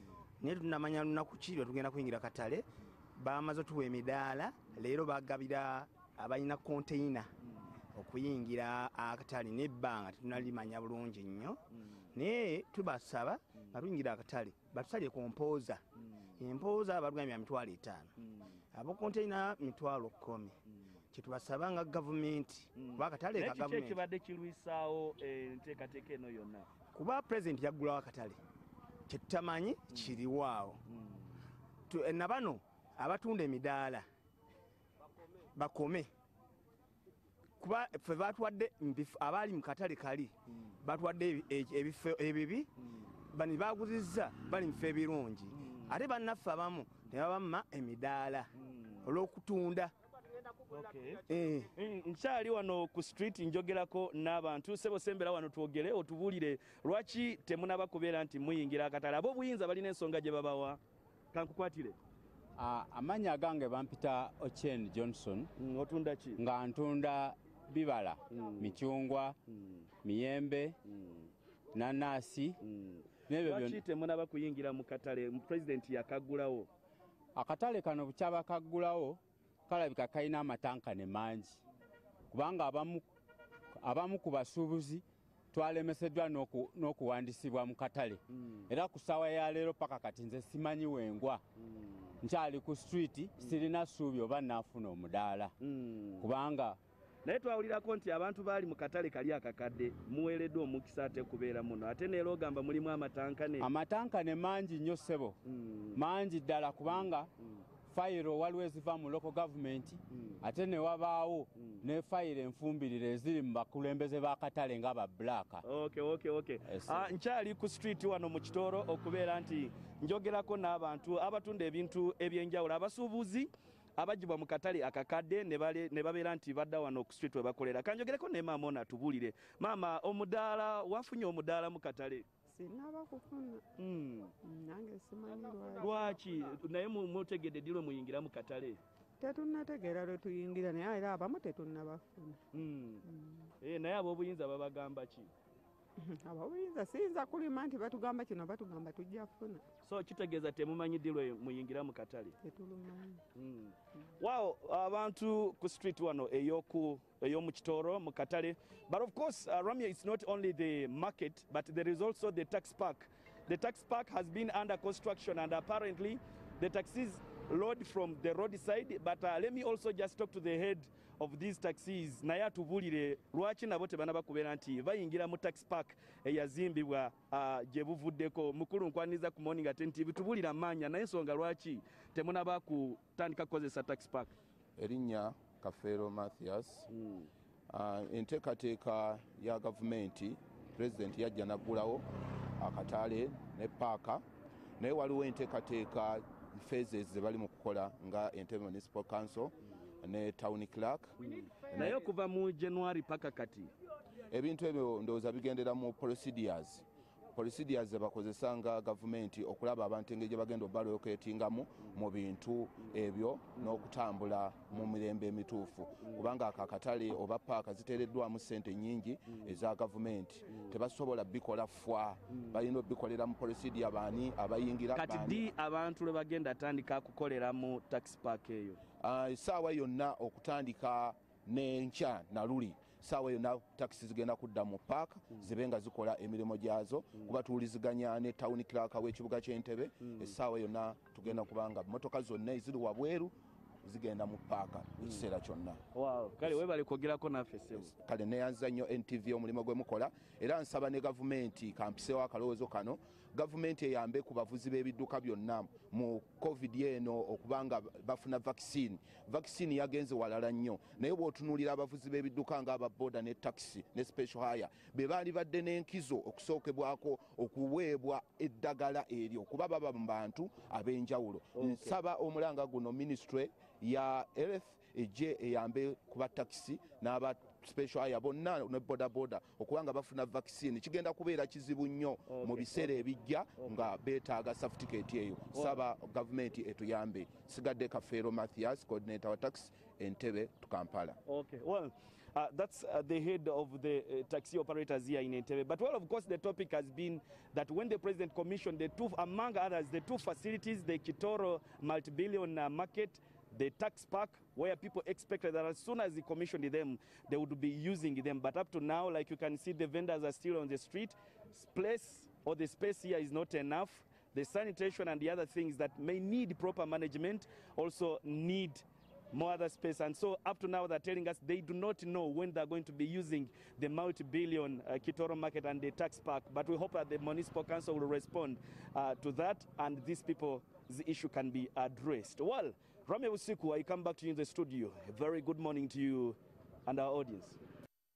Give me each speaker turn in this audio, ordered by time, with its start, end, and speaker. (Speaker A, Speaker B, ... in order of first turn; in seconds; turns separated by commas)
Speaker A: 0.4-2.6, Speaker A: 3.2-7.3, Speaker A: 7.9-11.6, Speaker B: 11.7-12.1, Speaker A: 12.1-15.8, Speaker B: 16.0-16.3, Speaker A: 16.4-18.1, Speaker B: 18.2-18.6, Speaker A: 18.7-20.5, Speaker A: 21.1-24.0, Speaker B: 22.7-26.7, Speaker A: 26.9-28.4, Speaker A: 29.1-30.8, Speaker B: 29.9-30.2, Speaker B: 30.9-31.3, Speaker A: 31.9-34.0, Speaker A: 35.5-36.1, Speaker A: 37.6-42.7, Speaker A: 43.3-48.5, Speaker B: 45.5-45.9, Speaker B: 48.5-49.1, Speaker A: 49.0-49.9, Speaker B: 50.7-60.8, Speaker A: 51.3-51.7, Speaker B: 61.3-62.0, Speaker C: 62.6-65.5, Speaker B: 65.6-66.4, Speaker C: 66.5-69.3, Speaker B: 68.3-68.8, Speaker B: 69.5-69.9, Speaker C: 70.0-70.7, Speaker B: 70.8-71.3, Speaker C: 71.7-72.5, Speaker B: 72.6-76.7, Speaker C: 73.3-73.8, Speaker C: 77.4-81.6, Speaker C: 82.3-83.0, Speaker C: 83.8-91.4, Speaker B: 88.3-88.7, Speaker B: 91.6-92.2, Speaker C: 92.2-95.5, Speaker B: 95.6-96.3, Speaker C: 96.2-96.8, Speaker B: 97.2-103.7, Speaker C: 103.6-105.3, Speaker B: 105.4-106.0, Speaker C: 106.0-107.3, Speaker B: 106.9-107.6, Speaker C: 107.9-115.6, Speaker B: 110.1-110.4, Speaker B: 111.5-111.8, Speaker B: 115.6-132.2, Speaker D: 132.5-133.6, Speaker B: 133.8-134.3, Speaker D: 134.4-136.1, Speaker B: 135.8-138.8, Speaker D: 139.2-142.4, Speaker B: 142.5-143.1, Speaker D: 143.0-143.5, Speaker B: 143.6-145.3, Speaker D: 146.0-149.6, Speaker B: 149.8-152.4, Speaker D: 152.4-153.2, Speaker B: 153.3-184.3, Speaker E: 184.8-186.9, Speaker B: 186.9-187.3, Speaker E: 187.7-192.0, Speaker E: 192.6-194.2, Speaker E: 194.8-201.1, Speaker B: 201.2-203.7, Speaker E: 201.7-202.0, Speaker E: 204.3-225.5, Speaker B: 213.6-213.8, Speaker B: 216.0-216.3, Speaker B: 222.3-222.6, Speaker B: 224.9-228.8, Speaker E: 229.0-245.8, Speaker B: 240.0-240.3, Speaker B: 245.0-245.2, Speaker B: 245.9-247.9, Speaker E: 247.7-291.2, Speaker B: 271.6-271.9, Speaker B: 282.3-283.1, Speaker B: 283.6-283.9, Speaker B: 285.5-285.8, Speaker B: 291.2-337.6